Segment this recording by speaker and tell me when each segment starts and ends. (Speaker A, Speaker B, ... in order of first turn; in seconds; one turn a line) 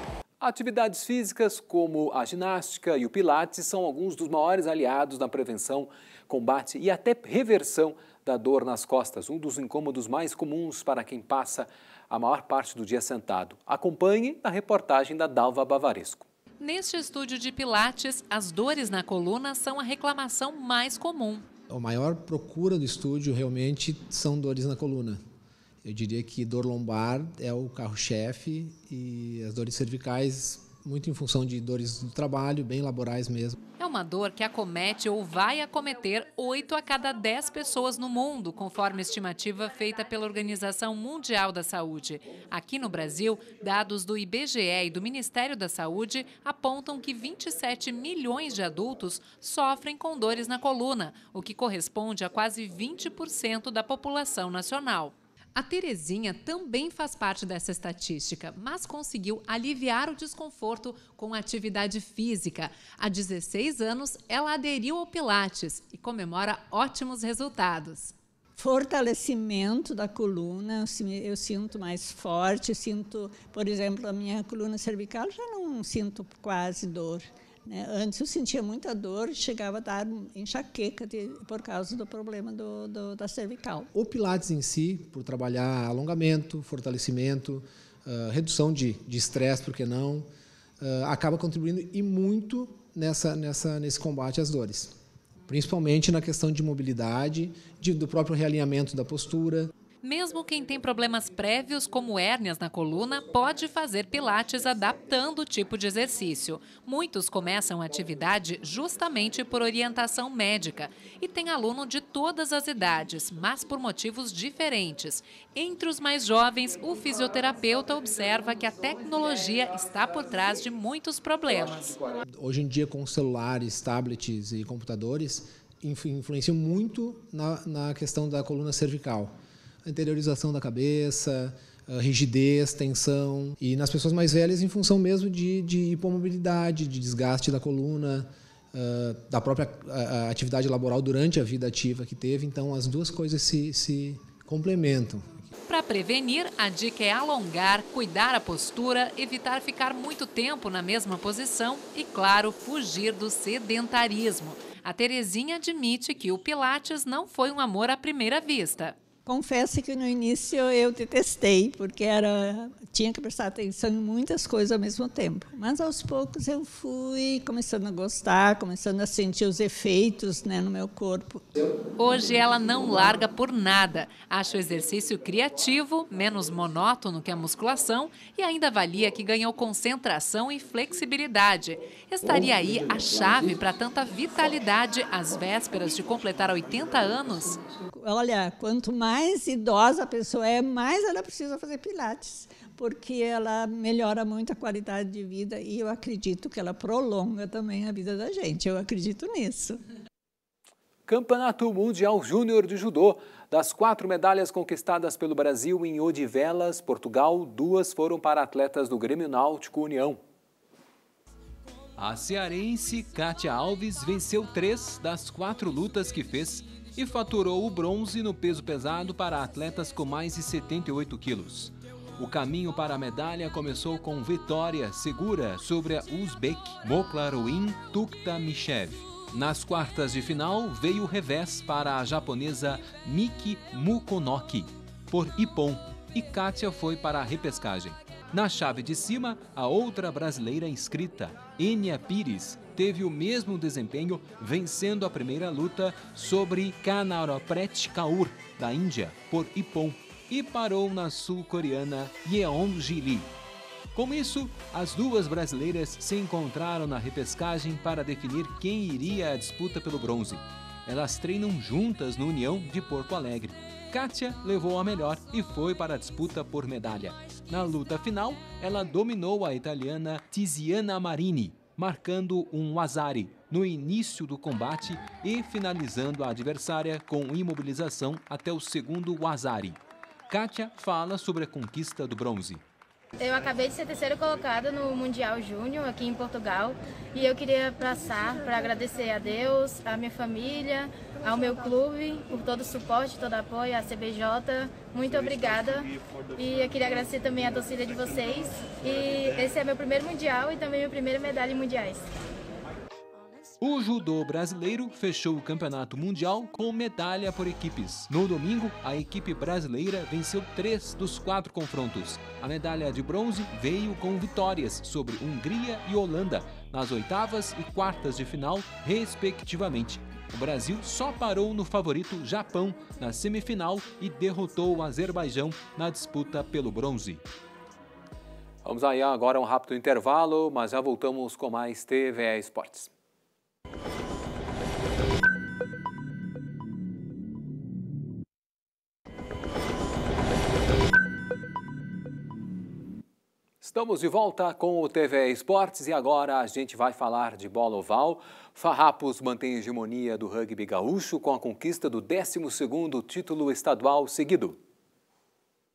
Speaker A: 0.4-16.3
Speaker B: 16.6-21.5
Speaker C: 21.7-25.2
Speaker C: 25.8-33.6
Speaker B: 33.8-68.2
Speaker D: 68.6-83.9
Speaker C: 83.9-90.3
Speaker C: 90.8-99.7
Speaker B: 100.0-122.2
Speaker C: 122.3-145.4
Speaker B: 145.7-159.0
Speaker D: 159.3-171.4
Speaker B: 172.0-187.7
Speaker D: 187.9-199.8
Speaker A: 201.1-210.2
Speaker A: 212.0-253.3
Speaker A: 253.9-282.6
Speaker E: 283.2-302.1
Speaker A: 303.6-327.3
Speaker A: 328.6-332.9
Speaker A: 343.6-354.6